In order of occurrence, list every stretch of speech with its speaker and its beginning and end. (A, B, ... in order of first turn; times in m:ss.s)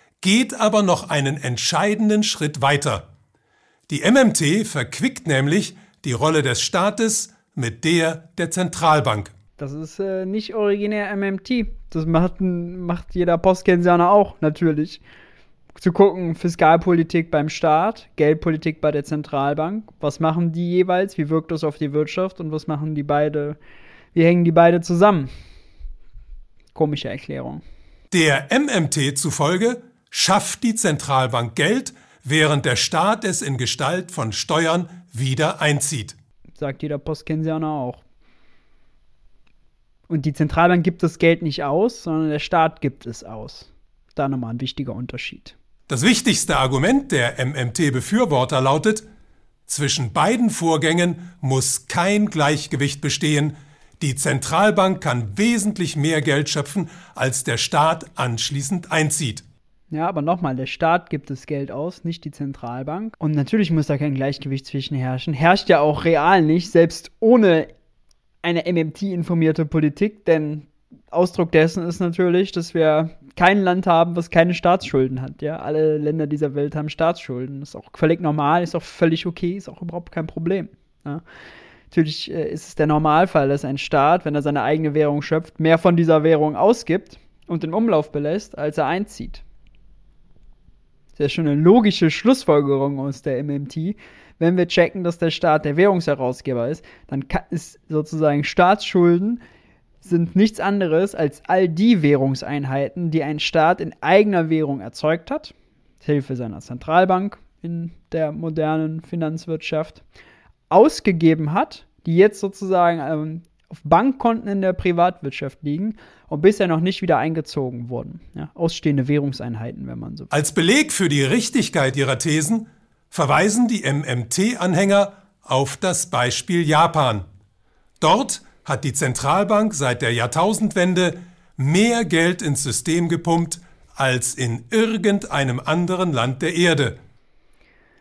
0:00.2-0:03.0 A
0:03.9-0:09.3 A
0:09.6-0:15.0 B
0:15.8-0:23.6 B
0:24.1-0:25.3 B
0:26.7-0:27.6 B
0:28.1-0:36.2 A
0:36.6-0:38.0 B
0:40.1-0:45.5 B
0:45.9-0:49.0 A
0:49.7-0:59.4 A
0:59.9-1:07.7 B
1:08.4-1:21.2 B
1:21.9-1:29.4 B
1:31.2-1:39.4 B
1:40.0-1:50.0 B
1:50.7-2:00.3 B
2:00.3-2:07.2 A
2:08.0-2:17.0 A